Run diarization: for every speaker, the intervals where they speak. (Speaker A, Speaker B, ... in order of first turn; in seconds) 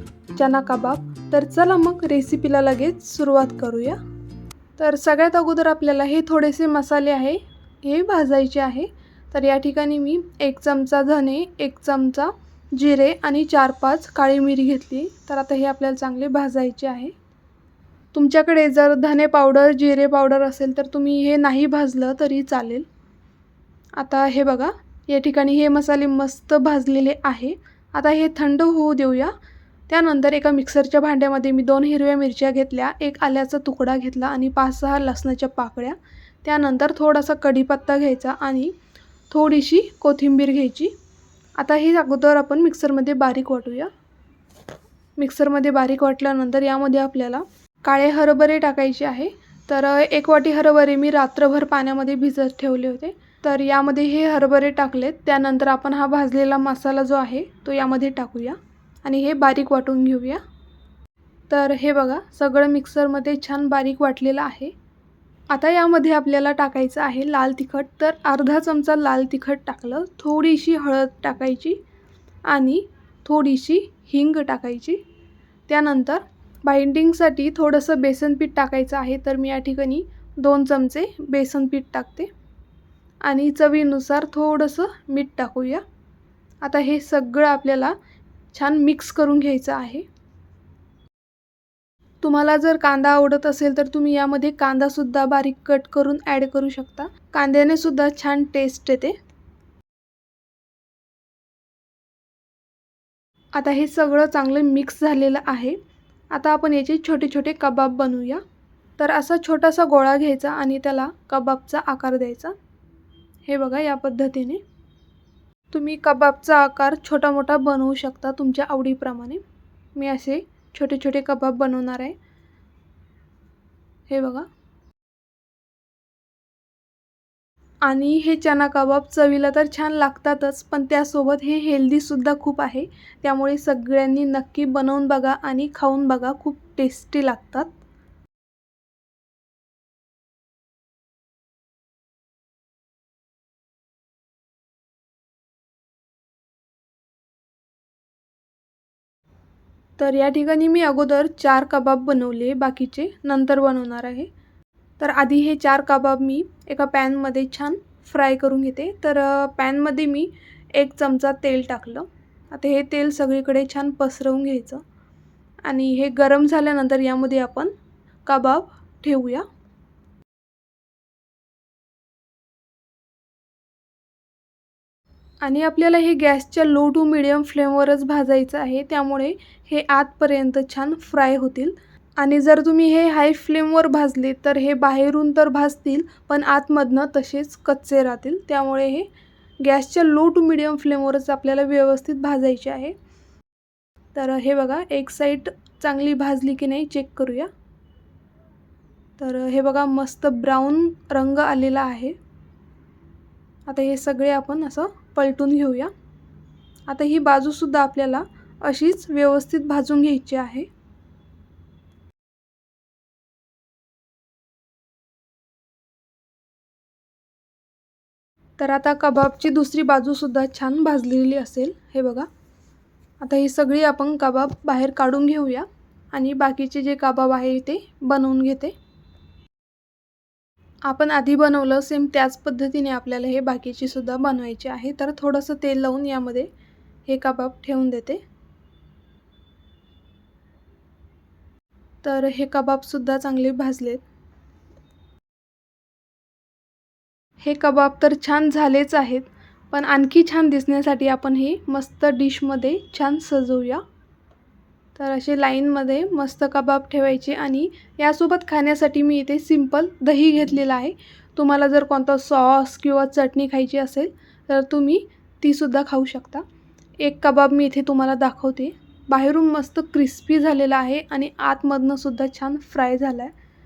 Speaker A: 0.3-4.0, 4.8-17.1, 18.1-22.9, 24.0-29.3, 29.9-38.7, 39.3-40.9, 41.6-43.9, 45.2-60.4, 61.5-64.7, 65.5-71.8, 72.5-75.0, 75.7-82.3, 83.2-85.8, 86.6-87.9, 88.5-90.0, 92.2-99.2, 103.5-105.8, 106.3-108.4, 109.0-112.5, 113.5-114.6, 115.7-119.4, 119.9-122.2, 124.1-124.5, 127.8-137.7, 150.0-154.3, 155.0-164.8, 165.6-167.7, 168.2-169.4, 175.4-189.1, 189.6-192.9, 194.1-197.5, 199.2-202.1, 203.7-205.9, 206.9-210.7, 218.6-222.3, 223.2-228.7, 230.8-236.5, 237.1-238.2, 242.0-244.0, 247.4-253.8, 254.9-266.4, 267.0-273.3